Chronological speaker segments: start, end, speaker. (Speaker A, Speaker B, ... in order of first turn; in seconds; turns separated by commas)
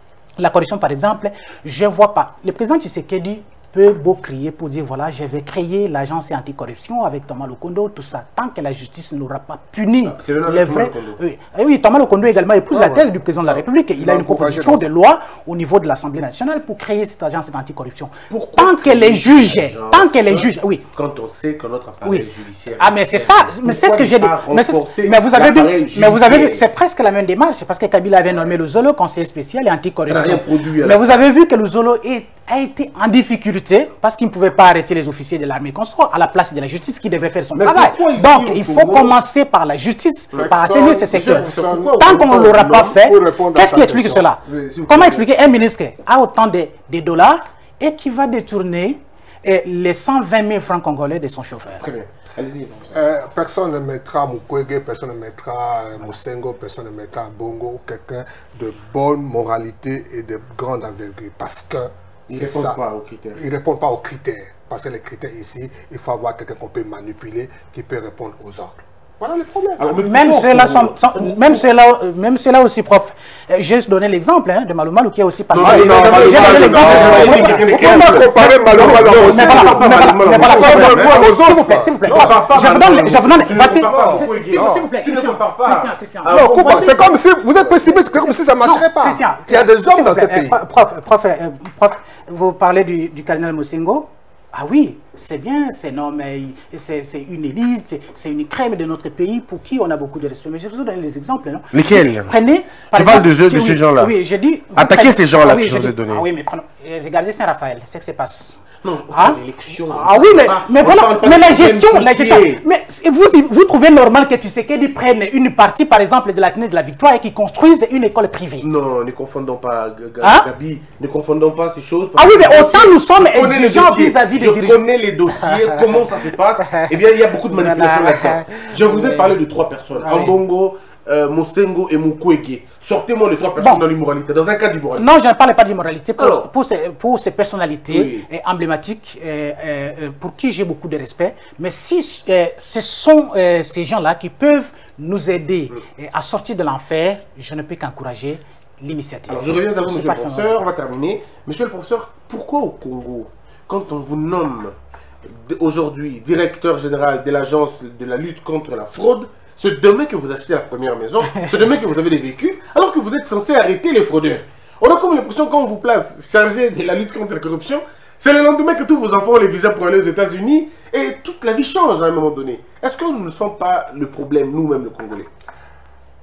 Speaker A: 0.4-20.8, Speaker B: 10.0-11.2, Speaker C: 12.7-14.9, Speaker B: 18.3-26.7, Speaker A: 22.8-51.9, Speaker B: 30.1-31.2, Speaker B: 37.5-39.2, Speaker B: 40.3-42.9, Speaker C: 40.4-44.3, Speaker B: 44.5-45.2, Speaker B: 51.8-53.0, Speaker C: 52.9-62.8, Speaker B: 62.3-63.4, Speaker C: 63.4-69.8, Speaker B: 69.8-71.7, Speaker A: 69.9-87.2, Speaker B: 75.5-81.2, Speaker C: 75.6-82.5, Speaker B: 82.1-87.1, Speaker C: 83.7-84.9, Speaker C: 86.3-90.6, Speaker A: 88.6-118.7, Speaker B: 101.7-102.3, Speaker B: 102.9-104.1, Speaker B: 104.8-106.2, Speaker B: 108.8-112.6, Speaker B: 118.6-135.1, Speaker A: 120.2-120.5, Speaker A: 122.2-124.8, Speaker A: 125.6-125.8, Speaker A: 127.5-129.4, Speaker A: 130.0-130.4, Speaker A: 133.6-133.8, Speaker A: 134.9-150.7, Speaker B: 136.2-136.5, Speaker B: 137.9-138.3, Speaker B: 149.3-154.7, Speaker B: 155.2-175.3